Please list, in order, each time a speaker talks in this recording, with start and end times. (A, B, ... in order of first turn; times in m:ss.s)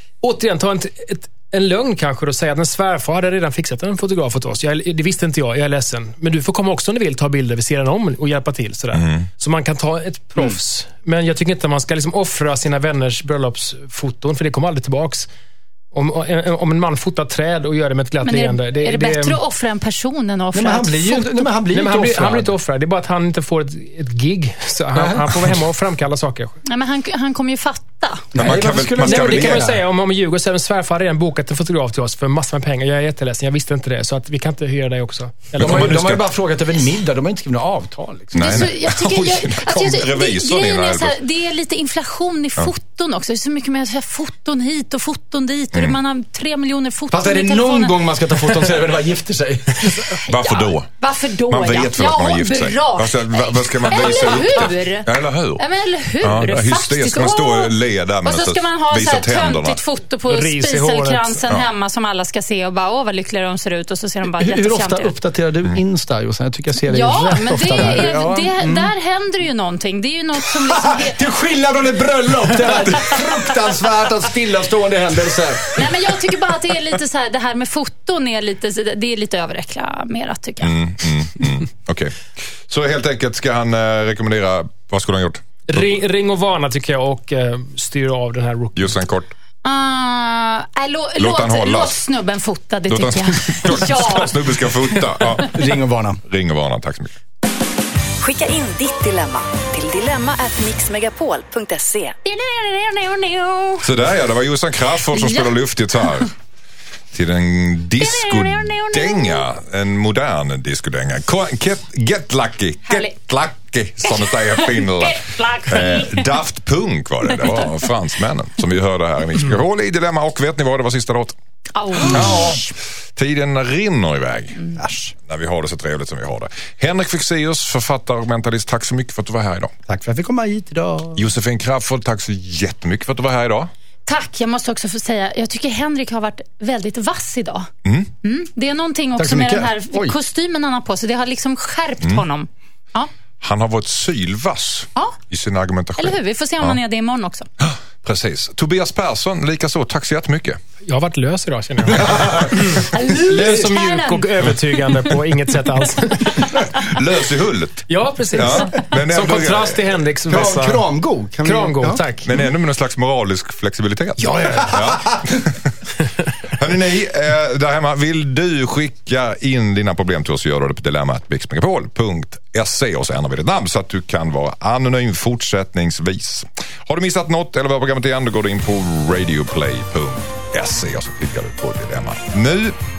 0:00.2-0:15.3 A
0:08.9-0:09.3 B
0:15.9-0:19.4 A
0:18.2-0:21.4 C
0:20.5-0:22.5 D
0:21.7-0:26.6 A
0:24.9-0:25.3 D
0:26.6-0:28.3 C
0:28.3-0:29.8 D
0:28.4-0:29.7 B
0:29.0-0:36.0 A
0:35.6-0:36.3 B
0:35.6-0:38.7 D
0:38.3-0:48.0 C
0:38.3-0:41.2 B
0:47.1-0:50.1 D
0:50.0-1:05.1 C
0:50.3-0:50.9 B
0:51.5-0:55.6 B
0:56.2-0:59.8 B
1:00.3-1:01.4 A
1:04.4-1:08.9 D
1:06.9-1:11.2 C
1:10.7-1:16.1 D
1:15.7-1:20.7 C
1:20.6-1:25.8 B
1:25.7-1:29.0 A
1:28.7-1:29.3 B
1:29.6-1:35.3 C
1:31.2-1:32.0 B
1:32.9-1:35.6 B
1:35.5-1:36.2 D
1:36.2-1:37.2 B
1:38.2-1:42.2 E
1:42.2-1:43.9 C
1:43.8-1:46.3 B
1:45.1-1:45.6 C
1:47.1-2:01.4 B
1:48.0-1:49.4 C
1:52.8-1:53.1 C
1:54.0-1:56.3 C
1:57.4-1:57.8 C
2:01.7-2:02.7 C
2:01.9-2:04.6 B
2:04.6-2:04.8 C
2:04.8-2:05.1 D
2:05.2-2:09.7 B
2:09.9-2:11.3 D
2:11.2-2:13.7 B
2:14.0-2:17.7 C
2:17.8-2:18.1 B
2:18.2-2:23.1 C
2:19.2-2:20.2 D
2:23.4-2:26.8 B
2:26.0-2:27.5 C
2:27.6-2:30.6 B
2:30.8-2:36.6 A
2:31.9-2:32.5 B
2:32.9-2:34.4 C
2:36.7-2:39.8 B
2:37.9-2:40.8 A
2:40.3-2:42.0 D
2:41.4-2:42.3 A
2:42.2-2:45.7 B
2:44.2-2:45.2 D
2:46.4-3:02.8 B